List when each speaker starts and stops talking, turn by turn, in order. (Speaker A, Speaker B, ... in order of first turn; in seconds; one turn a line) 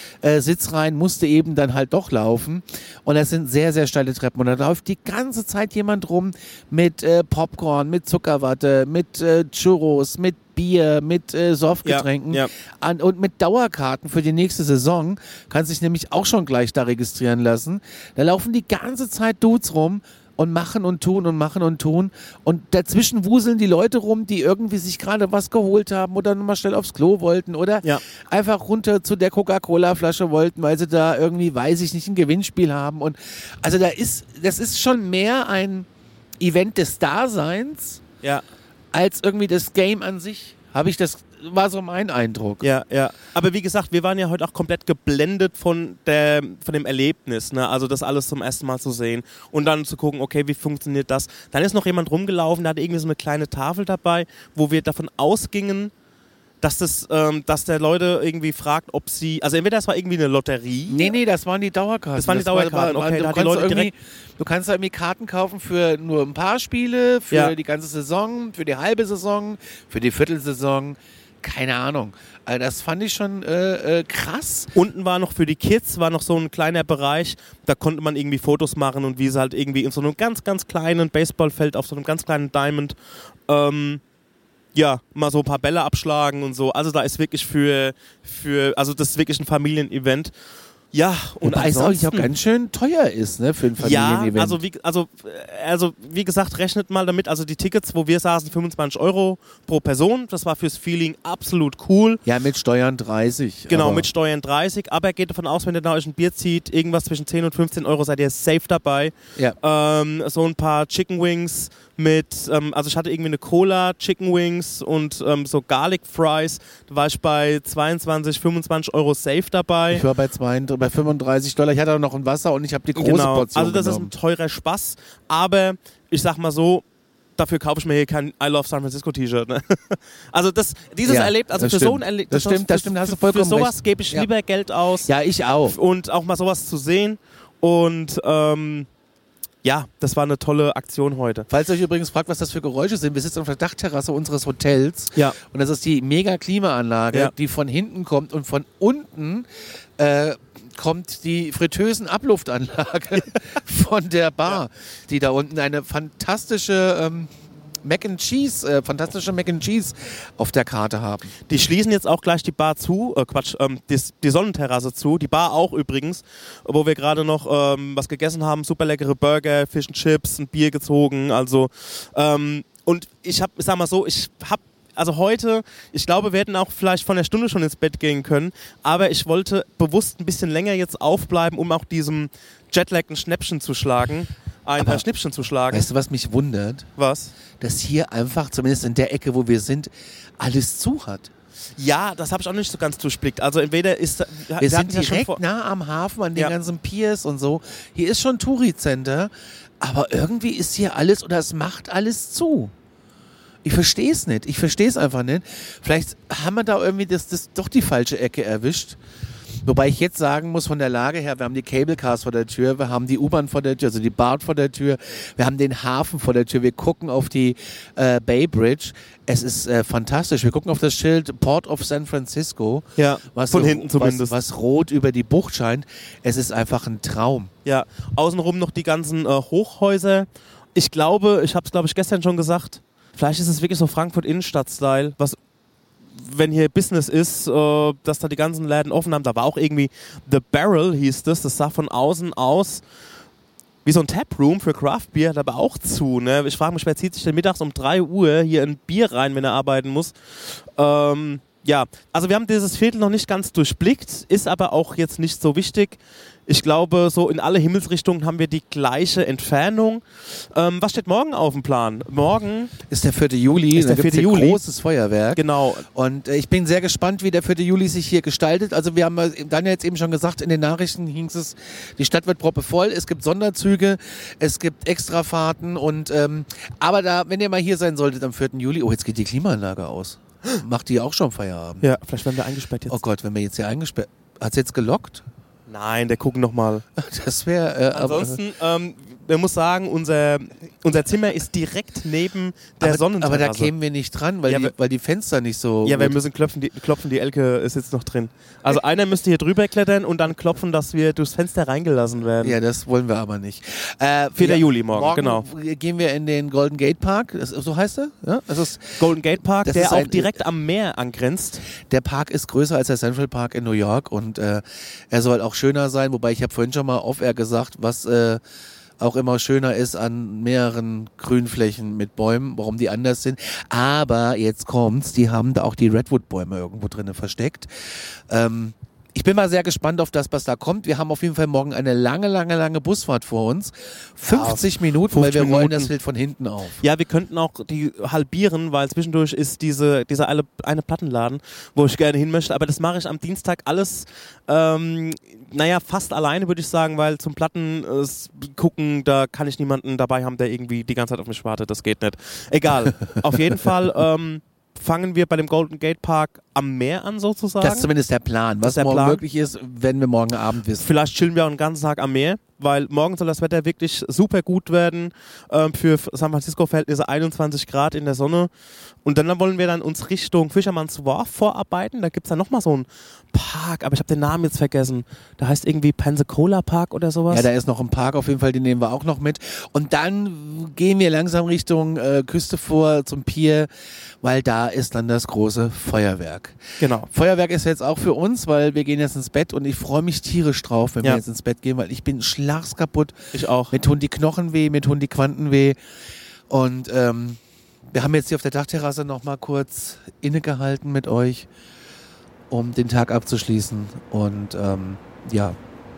Speaker A: 0.2-35.9
Speaker B: 11.8-12.5
Speaker A: 36.4-38.0
Speaker A: 38.9-42.7
Speaker B: 42.6-55.9
Speaker B: 56.6-61.1
Speaker A: 60.9-74.7
Speaker B: 62.2-63.9
Speaker B: 74.7-82.9
Speaker B: 83.5-84.0
Speaker B: 84.7-90.3
Speaker B: 90.9-92.3
Speaker A: 91.4-94.6
Speaker B: 93.8-102.2
Speaker A: 102.2-104.1
Speaker B: 103.7-120.0
Speaker A: 119.9-124.1
Speaker B: 123.0-126.8
Speaker B: 127.4-135.1
Speaker A: 131.0-134.3
Speaker A: 135.0-135.8
Speaker B: 135.6-138.9
Speaker B: 139.6-141.5
Speaker A: 141.5-157.3
Speaker A: 157.8-161.3
Speaker B: 161.5-185.9
Speaker A: 184.8-185.0
Speaker A: 185.7-186.9
Speaker B: 187.0-187.3
Speaker A: 187.6-191.3
Speaker B: 191.8-195.4
Speaker A: 194.6-202.7
Speaker A: 203.6-209.0
Speaker A: 209.6-227.5
Speaker B: 223.0-224.4
Speaker B: 227.6-235.4
Speaker B: 236.1-242.8
Speaker B: 243.8-262.7
Speaker A: 262.9-281.9
Speaker B: 263.7-264.6
Speaker B: 265.3-265.9
Speaker B: 281.8-283.0
Speaker A: 282.9-285.2
Speaker B: 285.7-286.8
Speaker A: 286.9-288.4
Speaker B: 287.9-293.7
Speaker A: 292.8-296.2
Speaker B: 294.5-294.7
Speaker B: 295.8-302.6
Speaker A: 302.4-309.0
Speaker B: 304.4-305.4
Speaker B: 309.0-311.6
Speaker A: 309.6-310.4
Speaker A: 311.7-318.4
Speaker A: 319.0-336.8
Speaker B: 334.3-335.9
Speaker B: 336.8-357.9
Speaker A: 357.6-360.9
Speaker B: 358.6-359.2
Speaker B: 360.8-368.5
Speaker B: 369.0-377.5
Speaker A: 377.3-383.7
Speaker A: 384.2-395.8
Speaker B: 386.8-387.1
Speaker B: 393.3-393.8
Speaker A: 396.5-401.5
Speaker A: 402.5-405.6